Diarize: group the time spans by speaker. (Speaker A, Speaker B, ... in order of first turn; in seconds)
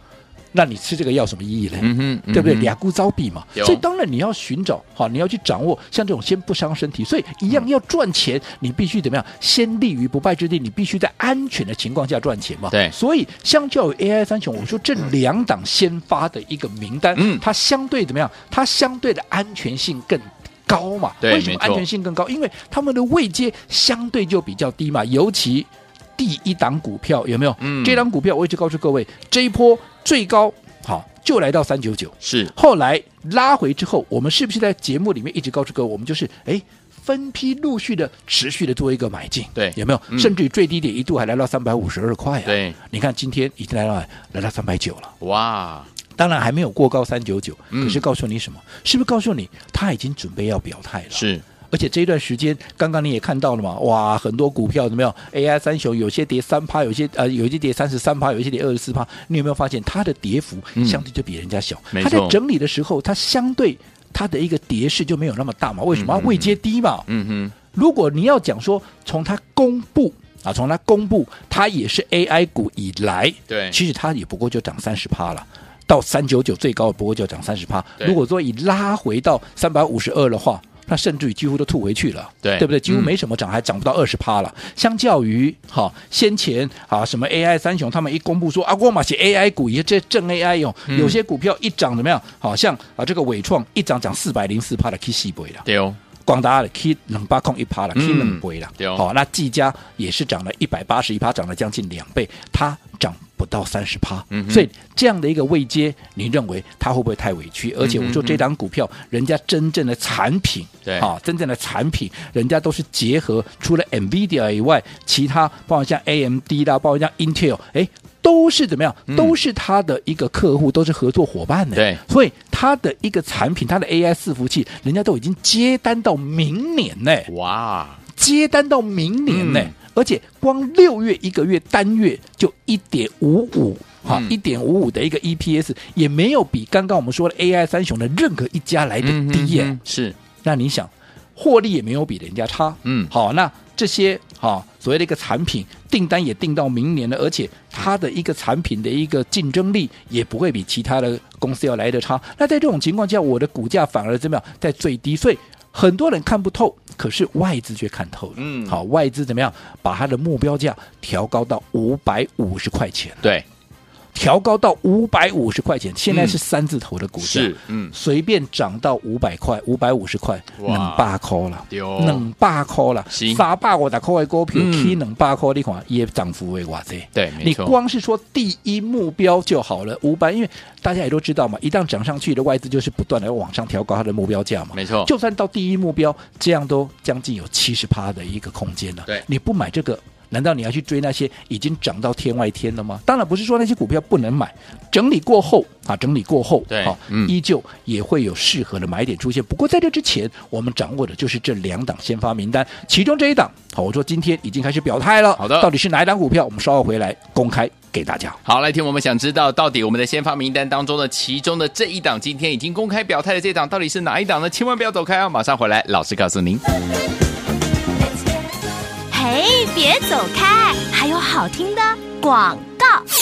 Speaker A: 0.5-45.1, 46.2-67.1, 67.7-95.7, 96.3-127.3, 128.2-139.8, 140.4-163.3, 164.2-208.4
Speaker B: 1.8-2.7, 3.6-3.8, 17.1-17.4, 21.2-21.9, 27.6-28.1, 32.2-32.5, 39.5-40.4, 42.5-42.8, 45.2-45.9, 47.7-48.0, 51.1-51.4, 60.8-61.0, 61.9-62.4, 65.9-67.5, 73.5-73.8, 82.4-83.1, 90.9-91.2, 95.7-96.0, 97.9-99.0, 104.3-104.7, 107.8-108.4, 119.1-119.4, 121.7-122.0, 127.3-128.0, 129.3-129.7, 134.1-134.3, 139.0-140.2, 142.8-143.1, 158.4-158.8, 166.1-166.4, 167.2-167.9, 170.6-171.1, 171.7-172.3, 173.1-173.4, 174.5-175.0, 177.2-177.8, 184.7-185.1, 196.7-197.3, 205.4-205.7, 208.4-216.6
Speaker C: 219.1-223.0